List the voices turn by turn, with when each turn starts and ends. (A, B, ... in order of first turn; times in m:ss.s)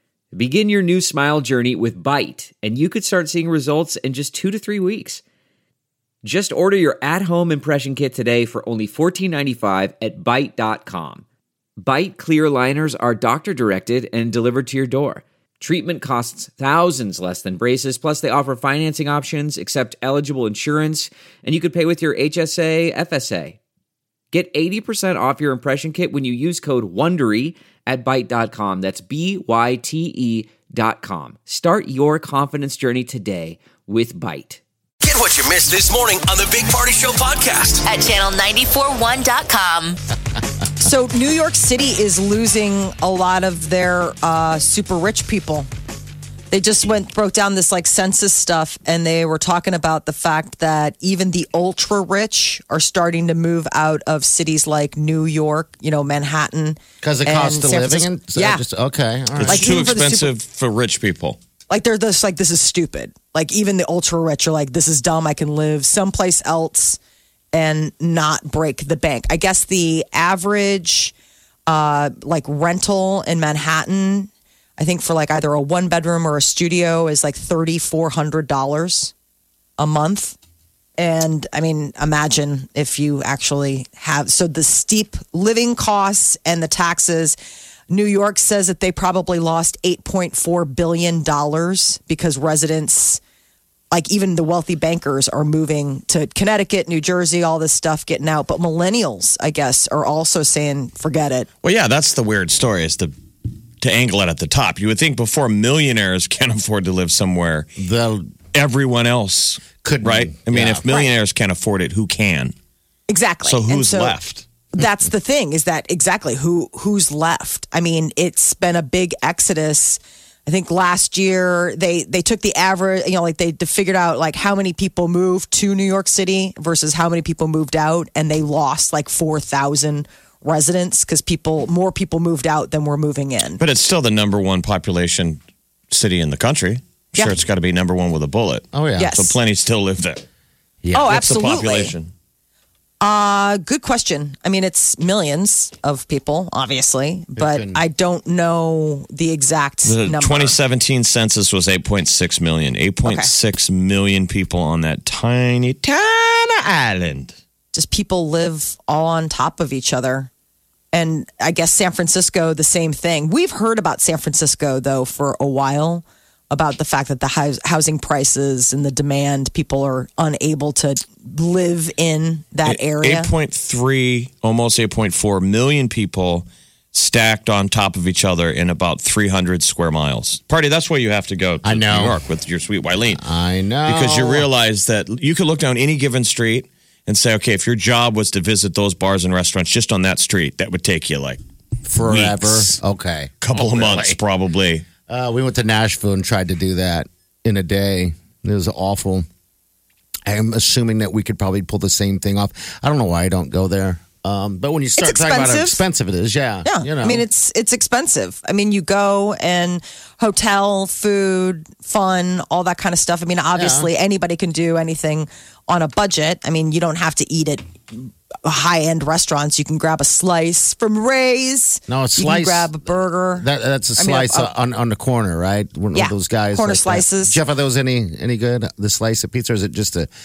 0:00.3-0:05.2 A
0:06.2-0:11.2 A
0:11.8-0:23.6 A
0:24.3-0:34.6 A
0:35.0-0:37.9 B
0:37.8-0:40.0 C
0:40.8-0:45.7 D
0:46.5-0:58.6 D
0:57.0-1:00.0 E
0:59.4-1:01.4 F
0:59.5-1:00.4 D
1:01.7-1:07.0 D
1:07.5-1:11.1 D
1:11.7-1:19.1 D
1:19.8-1:20.4 D
1:21.0-1:27.4 D
1:27.9-1:33.2 D
1:33.9-1:41.5 D
1:41.6-1:43.1 F
1:43.8-1:47.7 F
1:47.8-1:48.3 E
1:48.5-1:52.5 F
1:49.8-1:51.0 E
1:53.1-1:54.2 D
1:53.4-1:54.4 F
1:54.7-2:13.6 D
2:13.6-2:15.4 F
2:15.9-2:20.2 F
2:18.7-2:19.1 E
2:19.0-2:19.4 D
2:20.8-2:21.1 E
2:20.9-2:21.9 D
2:21.0-2:22.1 F
2:23.0-2:30.6 D
2:27.4-2:27.8 E
2:29.8-2:37.3 F
2:33.0-2:33.3 D
2:37.7-2:40.3 D
2:40.9-2:53.3 D
2:52.6-3:03.2 F
3:01.6-3:02.2 E
3:03.2-3:04.5 E
3:03.8-3:11.4 F
3:11.8-3:14.2 E
3:12.0-3:12.8 F
3:13.4-3:14.8 F
3:15.1-3:19.2 E
3:20.3-3:27.2 E
3:25.0-3:25.8 D
3:26.6-3:44.5 D
3:33.5-3:33.9 E
3:41.9-3:42.7 E
3:43.4-3:50.1 E
3:45.9-3:47.4 D